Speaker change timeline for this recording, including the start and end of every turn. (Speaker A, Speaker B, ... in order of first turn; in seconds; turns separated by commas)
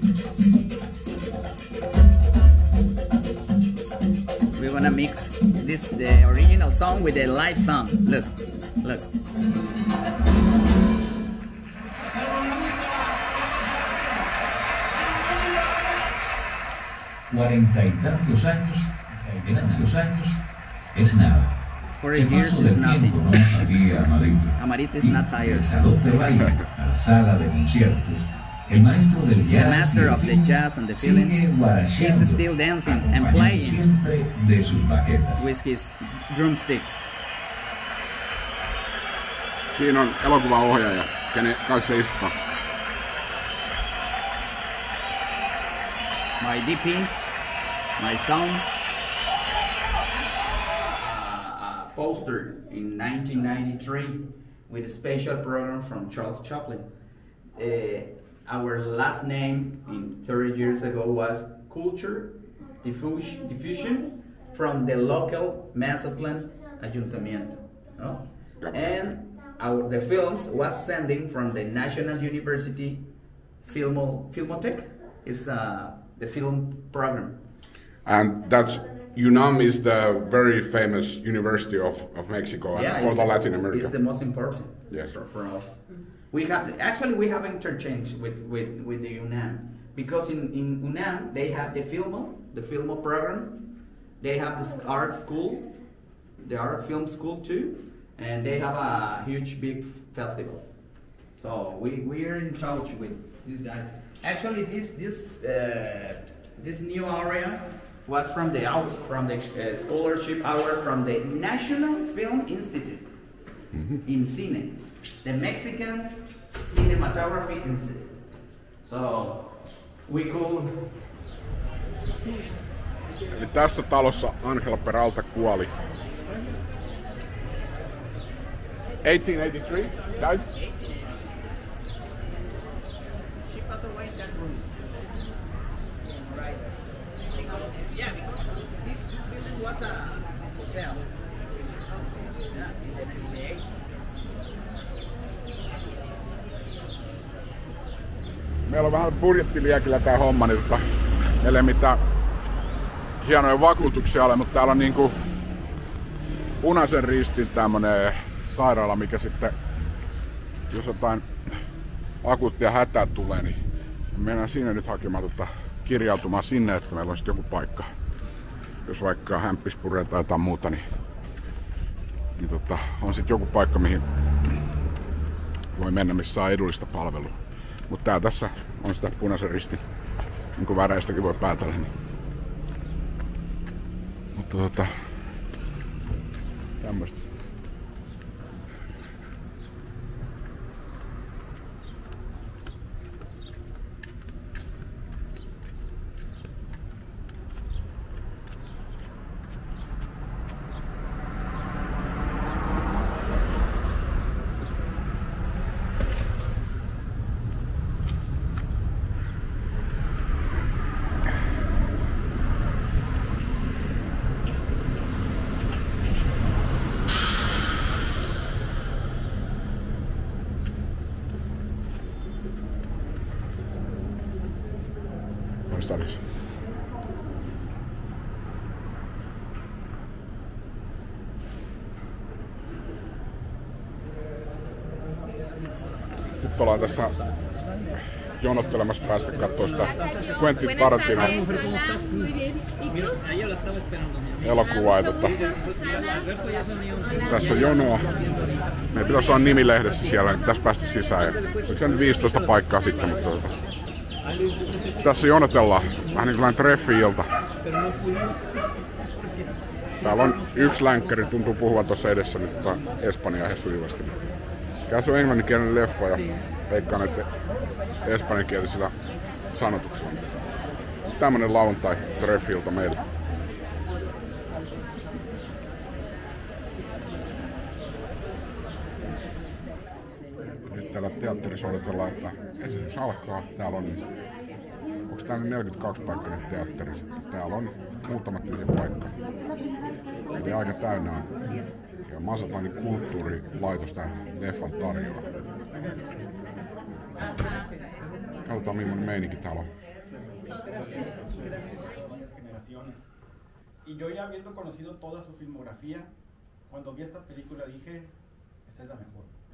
Speaker A: 4.5-9.1, Speaker B: 17.3-35.5, Speaker A: 21.9-23.7, Speaker A: 24.5-26.1, Speaker A: 29.5-31.4, Speaker A: 31.9-33.8, Speaker A: 35.4-37.0, Speaker C: 39.7-42.4, Speaker A: 46.4-47.1, Speaker A: 48.0-48.7, Speaker A: 51.0-56.9, Speaker A: 57.5-73.1, Speaker C: 68.6-69.1, Speaker A: 73.6-77.4, Speaker C: 78.0-83.9, Speaker A: 82.7-93.7, Speaker A: 94.2-95.8, Speaker A: 96.4-100.7, Speaker A: 101.4-113.1, Speaker C: 113.7-114.0, Speaker A: 114.0-120.9, Speaker C: 123.3-125.7, Speaker C: 129.0-130.4, Speaker A: 130.5-131.2, Speaker A: 133.4-134.9, Speaker A: 136.0-141.1, Speaker A: 142.4-143.7, Speaker C: 148.7-150.8, Speaker C: 151.4-152.0, Speaker C: 153.2-155.2, Speaker C: 156.6-159.5, Speaker C: 160.7-161.2, Speaker C: 162.2-163.6, Speaker C: 164.1-167.9, Speaker C: 168.8-170.8, Speaker C: 172.4-174.0, Speaker C: 175.7-177.4, Speaker C: 177.9-179.8, Speaker C: 180.6-181.9, Speaker C: 184.3-184.9, Speaker C: 186.8-187.2, Speaker C: 225.7-226.2, Speaker C: 236.3-237.2, Speaker C: 238.4-241.5, Speaker C: 244.4-245.5, Speaker C: 247.2-248.3, Speaker C: 248.9-253.6, Speaker C: 254.9-257.3, Speaker C: 260.0-264.2, Speaker C: 264.9-267.3, Speaker C: 268.0-268.9, Speaker C: 269.5-270.5, Speaker C: 271.1-273.1, Speaker C: 280.6-284.1, Speaker C: 285.1-289.1, Speaker C: 290.3-291.3, Speaker C: 292.1-295.4, Speaker C: 298.4-299.7, Speaker D: 300.4-303.1, Speaker D: 303.8-306.1, Speaker D: 306.7-308.1, Speaker D: 308.6-309.3